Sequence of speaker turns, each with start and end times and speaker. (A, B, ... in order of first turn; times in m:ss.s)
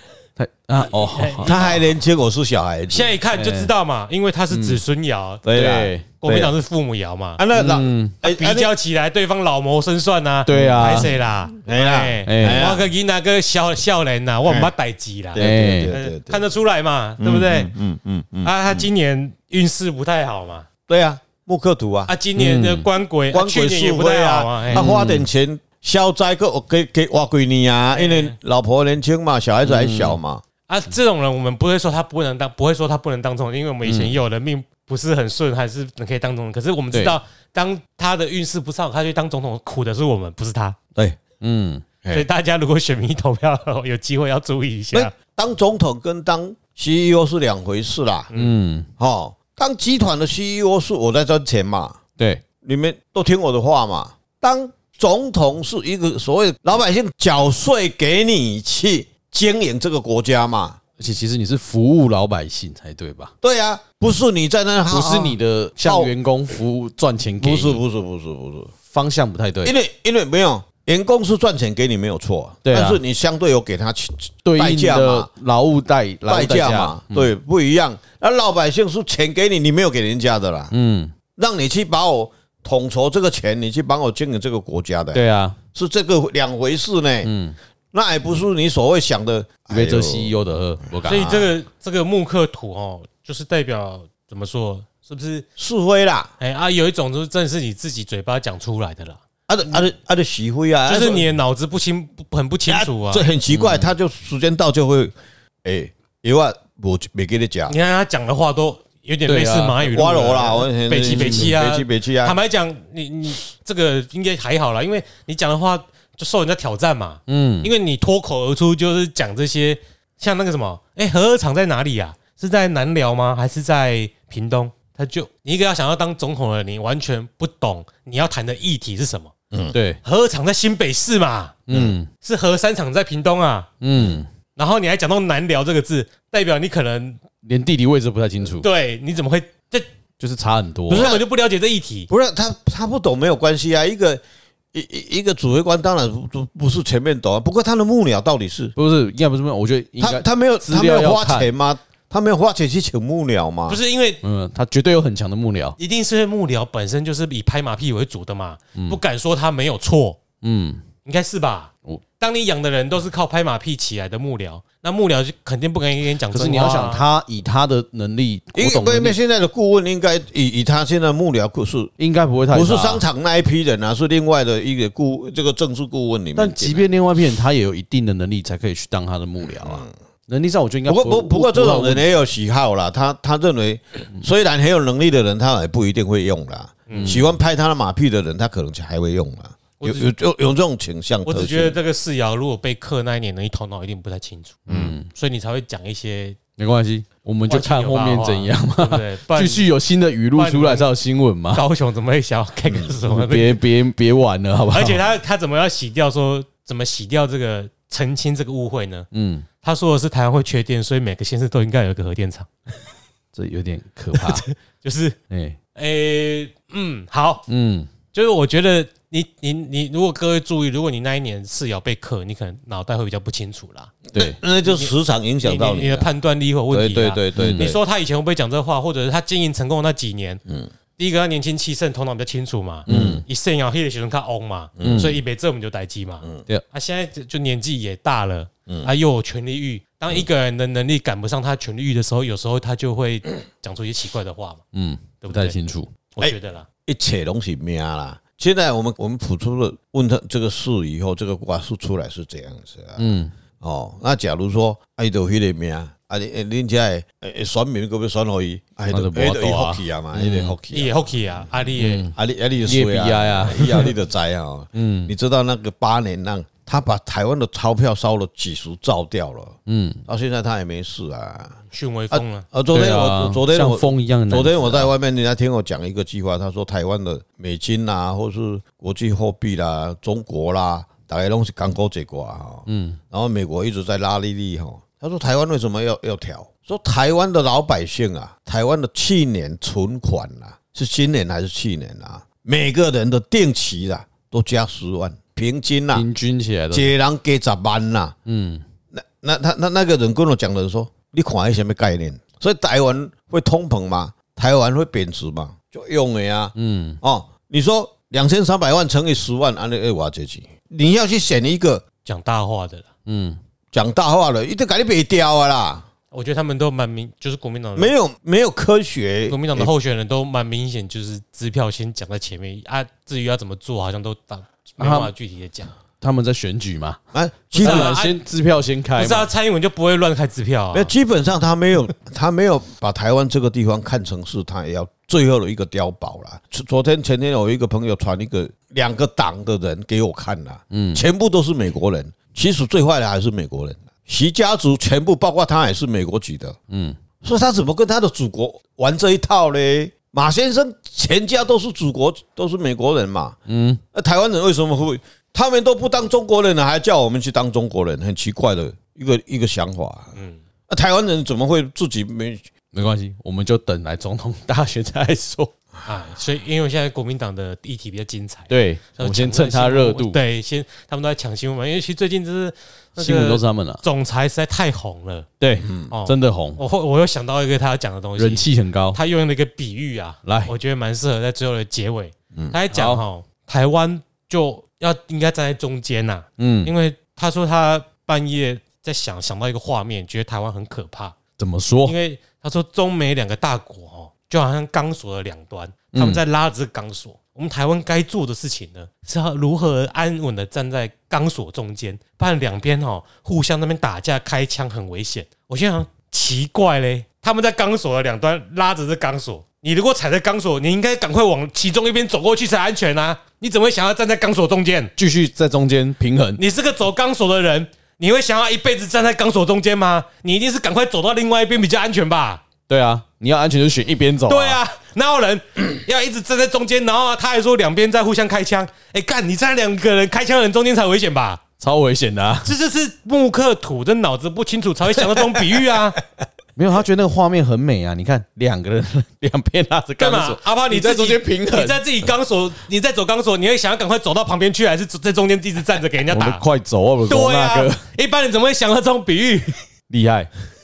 0:00.4-0:01.5 A
0:00.9-0:01.9 B
0:01.4-0:03.2 C
0:02.9-0:05.4 B
0:03.3-0:03.7 A
0:04.5-0:04.8 A
0:05.4-0:06.6 C
0:05.5-0:06.1 A
0:06.2-0:07.4 B
0:07.4-0:08.7 C
0:07.5-0:08.2 A
0:08.2-0:17.7 B
0:10.5-0:11.1 A
0:10.5-0:11.1 C
0:11.6-0:12.9 C
0:12.3-0:12.7 A
0:14.4-0:14.7 C
0:15.3-0:16.5 C
0:15.4-0:15.9 A
0:17.2-0:18.9 C
0:18.4-0:20.7 B
0:20.9-0:22.1 C
0:22.1-0:24.9 B
0:22.4-0:22.9 A
0:23.3-0:30.4 C
0:24.7-0:25.3 A
0:27.9-0:28.4 B
0:29.6-0:30.2 A
0:30.7-0:40.8 B
0:33.8-0:34.2 A
0:41.4-0:41.8 A
0:42.1-0:45.1 B
0:44.9-0:48.3 C
0:48.4-0:48.9 A
0:49.0-0:52.0 C
0:52.2-0:52.4 A
0:52.6-1:00.8 C
1:01.0-1:03.3 A
1:03.4-1:06.1 C
1:04.9-1:07.8 A
1:07.4-1:08.7 C
1:08.9-1:09.7 A
1:09.6-1:15.3 C
1:12.6-1:13.0 A
1:14.4-1:17.3 A
1:16.3-1:20.7 C
1:20.7-1:21.1 A
1:21.4-1:27.3 C
1:25.1-1:25.6 A
1:27.2-1:27.6 A
1:27.9-1:30.3 C
1:29.7-1:31.4 A
1:30.9-1:31.5 C
1:31.0-1:35.5 B
1:35.6-1:36.3 C
1:36.4-1:39.2 B
1:39.5-1:41.3 C
1:40.9-1:43.3 B
1:42.7-1:45.1 C
1:43.5-1:43.9 A
1:45.6-1:47.8 C
1:47.7-2:09.3 B
1:49.3-1:49.8 A
1:49.8-1:52.4 C
1:51.1-1:51.5 A
1:57.3-1:57.7 A
2:09.7-2:10.0 A
2:10.0-2:11.6 B
2:11.7-2:12.1 A
2:11.7-2:12.0 C
2:12.2-2:13.7 B
2:13.8-2:14.3 A
2:14.0-2:14.2 C
2:14.6-2:17.2 B
2:17.4-2:18.7 A
2:18.6-2:19.9 B
2:20.2-2:21.1 A
2:20.9-2:22.1 B
2:20.9-2:21.2 C
2:22.1-2:24.2 C
2:24.7-2:28.7 C
2:28.8-2:31.5 A
2:30.0-2:33.8 C
2:33.7-2:34.2 B
2:34.2-2:35.8 A
2:35.8-2:40.2 B
2:40.4-2:40.8 A
2:41.0-2:47.0 B
2:46.3-2:49.2 A
2:48.6-2:51.9 C
2:52.0-2:53.0 A
2:52.5-2:56.9 C
2:56.4-3:02.1 A
2:59.5-2:59.9 C
3:00.9-3:11.8 C
3:06.9-3:07.2 B
3:06.9-3:07.3 A
3:09.8-3:10.1 B
3:11.2-3:14.6 B
3:14.7-3:15.0 C
3:14.7-3:15.1 A
3:15.1-3:16.4 B
3:16.6-3:21.6 A
3:17.5-3:19.7 B
3:20.4-3:20.9 B
3:21.5-3:23.6 B
3:22.7-3:22.9 C
3:23.1-3:25.0 A
3:24.7-3:29.1 B
3:29.1-3:29.5 A
3:29.6-3:32.5 B
3:33.3-3:34.4 A
3:34.1-3:35.2 B
3:35.3-3:35.6 A
3:35.8-3:37.5 B
3:37.5-3:37.9 A
3:38.1-3:44.0 B
3:44.1-3:46.1 C
3:44.6-3:50.4 B
3:46.7-3:47.8 C
3:47.4-3:47.7 A
3:51.0-4:04.6 B
3:52.9-3:53.2 A
3:52.9-3:53.2 C
3:54.8-3:55.2 C
3:54.8-3:55.2 A
4:04.7-4:05.9 A
4:05.2-4:05.6 B
4:06.2-4:06.7 B
4:06.9-4:21.2 C
4:13.0-4:13.3 A
4:18.9-4:20.6 A
4:20.7-4:22.1 B
4:21.8-4:23.9 A
4:22.2-4:31.6 C
4:24.8-4:25.1 A
4:29.7-4:30.0 A
4:31.7-4:32.5 B
4:32.1-4:56.1 C
4:32.7-4:34.9 A
4:42.7-4:43.0 A
4:55.9-4:56.9 A
4:56.7-4:58.2 C
4:58.3-4:58.6 A
4:58.9-5:11.8 C
5:06.6-5:07.0 A
5:12.0-5:12.9 B
5:13.1-5:13.4 A
5:13.7-5:15.9 C
5:16.1-5:17.9 B
5:17.8-5:19.7 C
5:19.3-5:25.7 B
5:24.8-5:25.1 A
5:26.0-5:27.0 A
5:27.1-5:27.9 C
5:27.5-5:28.2 B
5:27.6-5:29.3 A
5:29.0-5:30.9 B
5:30.7-5:46.6 C
5:40.7-5:41.1 A
5:46.7-5:47.0 A
5:47.2-5:53.4 C
5:53.5-5:53.8 A
5:53.9-6:00.2 C
6:00.2-6:00.4 B
6:00.7-6:02.5 C
6:02.7-6:05.5 A
6:05.8-6:15.3 B
6:08.5-6:10.2 A
6:13.0-6:13.8 A
6:15.4-6:16.6 A
6:15.6-6:15.9 C
6:15.9-6:31.2 B
6:18.2-6:19.0 A
6:20.2-6:20.5 A
6:22.7-6:23.0 A
6:26.4-6:26.7 A
6:31.4-6:32.0 A
6:31.8-6:54.9 B
6:35.9-6:36.2 A
6:55.0-6:56.4 A
6:56.4-7:02.4 B
7:02.7-7:04.6 A
7:04.3-7:11.4 B
7:11.6-7:12.5 A
7:12.4-7:16.0 B
7:15.2-7:15.8 C
7:16.6-7:22.1 A
7:20.0-7:26.4 B
7:26.1-7:27.8 A
7:27.1-7:29.6 B
7:29.9-7:30.3 A